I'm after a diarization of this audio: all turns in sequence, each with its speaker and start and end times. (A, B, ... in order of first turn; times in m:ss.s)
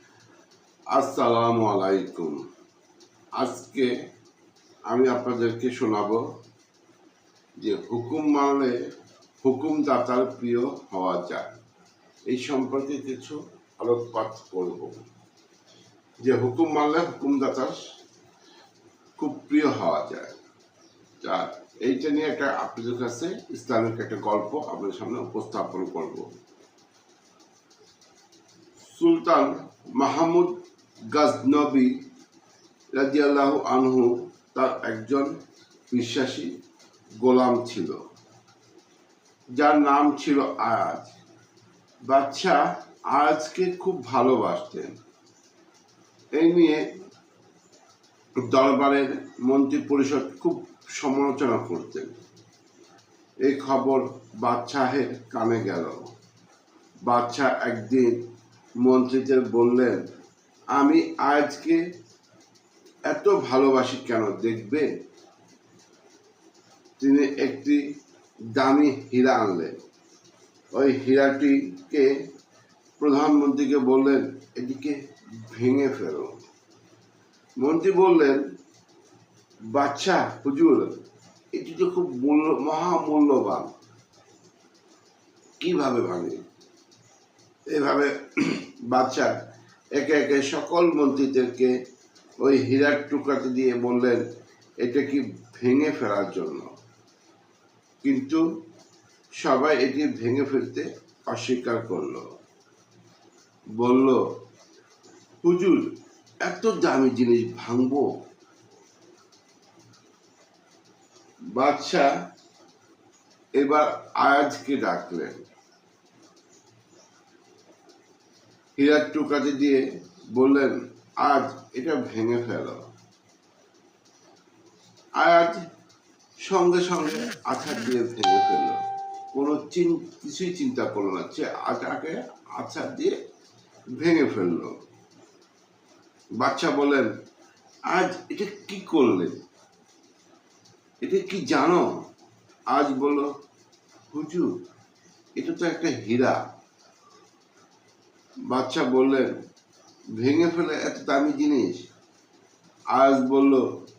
0:00.9-0:02.4 A
0:03.4-0:03.9 A
0:04.9-0:06.2 A
0:07.6-0:08.8 A
0:09.4-0:11.5 A
0:12.3-0:15.0 A
0:16.2-0:17.8 A
0:19.2-0:20.4 A
0:21.2-0:26.3 A
0:28.9-0:30.6 A
0:31.1-0:31.9 A
0:33.0-0:35.3 A
0:35.9-0:36.5 A
0:37.2-0:38.0 A
0:39.6-0:41.2 A
0:42.1-0:44.9 A
0:46.4-0:46.8 A
0:48.5-0:52.2 A
0:53.4-0:56.1 A
0:57.1-0:58.2 A
0:58.8-1:00.0 A
1:00.8-1:01.8 A
1:03.1-1:04.9 A
1:07.0-1:07.8 A
1:08.5-1:09.8 A
1:10.7-1:12.1 A
1:13.0-1:16.4 A
1:17.6-1:18.4 A
1:19.7-1:21.0 A
1:21.6-1:23.7 A
1:25.6-1:26.4 A
1:27.7-1:29.3 A
1:30.0-1:31.7 A
1:32.4-1:34.2 A
1:34.8-1:36.7 A
1:38.0-1:38.4 A
1:39.4-1:42.2 A
1:43.8-1:44.2 A
1:45.4-1:45.9 A
1:46.4-1:48.1 A
1:51.6-1:52.1 A
1:53.6-1:55.4 A
1:58.8-1:59.8 A
2:00.4-2:02.8 A
2:05.2-2:05.6 A
2:06.4-2:08.8 A
2:09.3-2:13.2 A
2:14.0-2:14.7 A
2:16.4-2:17.1 A
2:17.9-2:19.3 A
2:21.0-2:21.9 A
2:22.7-2:23.3 A
2:24.1-2:24.5 A
2:25.4-2:26.4 A
2:28.5-2:29.3 A
2:30.2-2:31.9 A
2:32.9-2:33.6 A